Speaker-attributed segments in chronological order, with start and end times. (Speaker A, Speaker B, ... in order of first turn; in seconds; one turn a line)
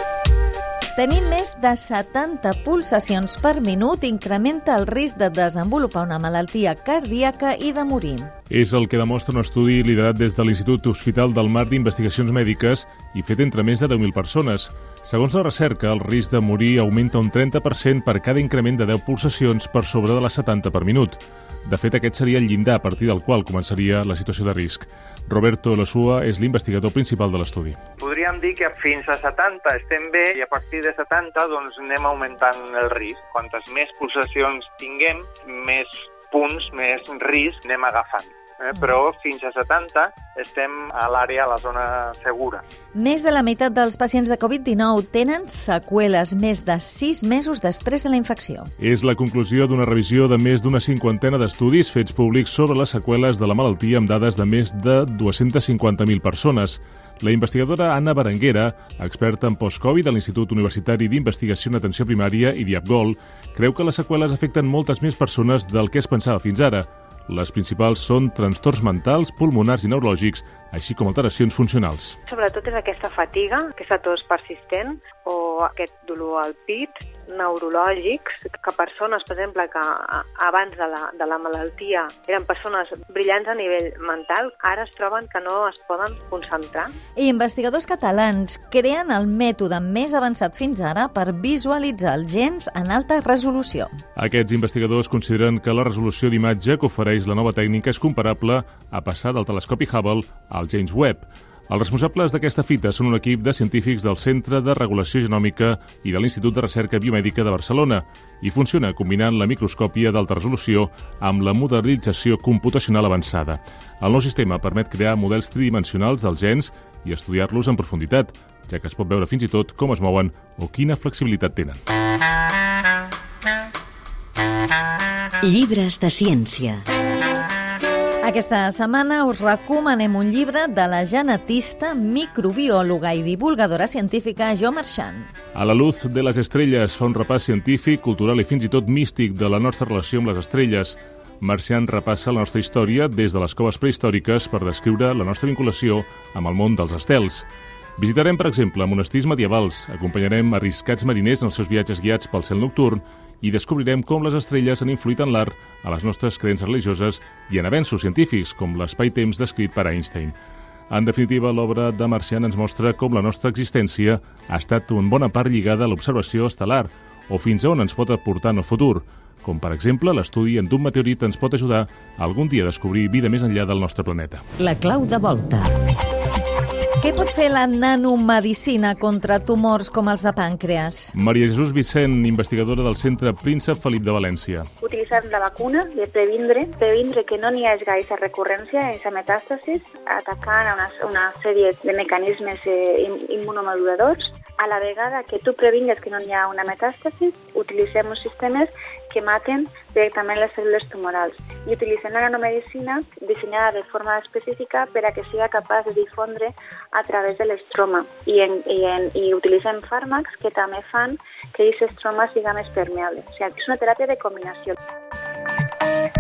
Speaker A: 1.0-8.3
Speaker B: 8.5-27.8
Speaker C: 28.0-42.6
Speaker A: 43.0-48.7
Speaker B: 48.8-72.2
Speaker D: 72.3-86.9
Speaker A: 87.2-93.9
Speaker B: 94.2-121.8
Speaker E: 125.4-126.8
Speaker A: 128.2-135.3
Speaker B: 135.5-147.5
Speaker B: 148.0-160.3
Speaker B: 160.9-174.4
Speaker E: 174.6-175.8
Speaker A: 177.0-181.1
Speaker B: 181.1-184.7
Speaker F: 184.8-214.8